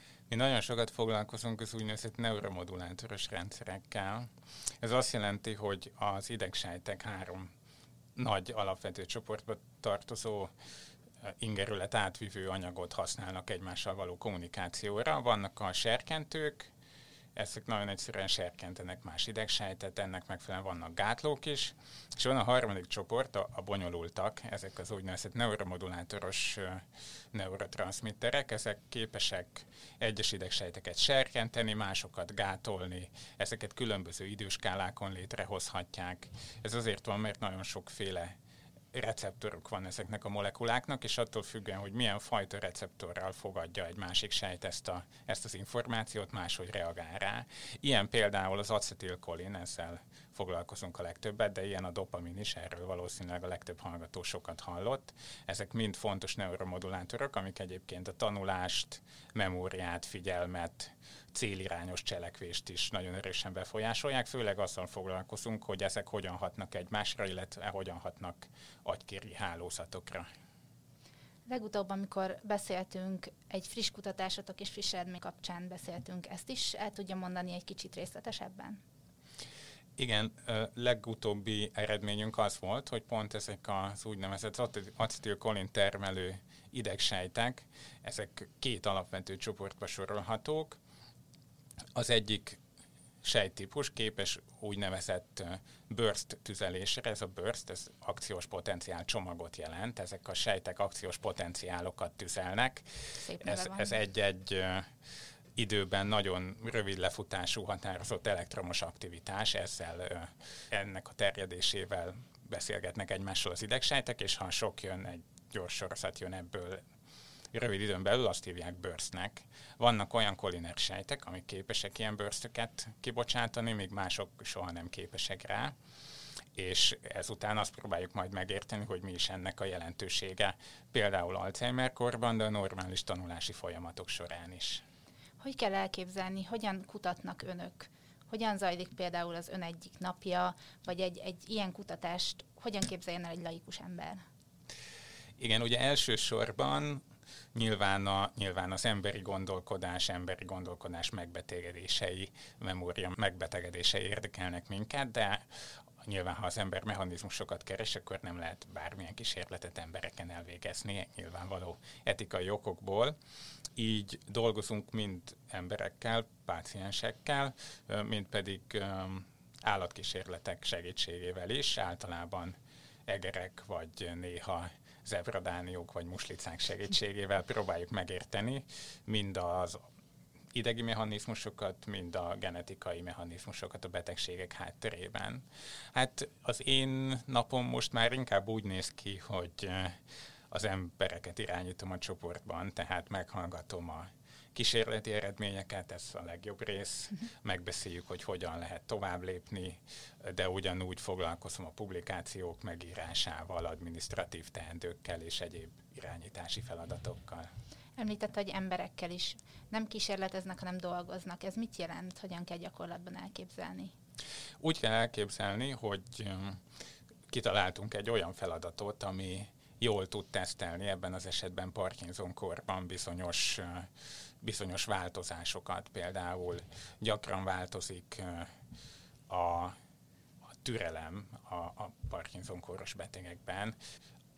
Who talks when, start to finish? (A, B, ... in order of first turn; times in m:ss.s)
0:00.3-0:04.3 A
0:04.8-0:07.5 A
0:08.2-0:10.5 A
0:11.2-0:16.7 A
0:17.4-0:38.4 A
0:38.9-1:10.3 A
1:11.5-1:18.8 B
1:20.0-1:30.8 A
1:31.9-1:32.6 A
1:33.2-1:44.9 A
1:43.2-1:43.9 B
1:45.6-1:56.8 A
1:57.5-2:05.7 A
2:06.5-2:14.8 A
2:15.4-2:24.2 B
2:25.4-2:27.0 A
2:27.5-2:35.5 A
2:36.0-2:43.2 A
2:43.8-2:52.6 A
2:53.1-2:59.8 A
3:00.5-3:10.0 A
3:10.5-3:27.5 A
3:28.0-3:33.9 B
3:34.6-3:36.6 A
3:37.3-3:43.9 A
3:44.4-3:48.5 A
3:49.3-3:49.8 A
3:50.6-3:53.8 A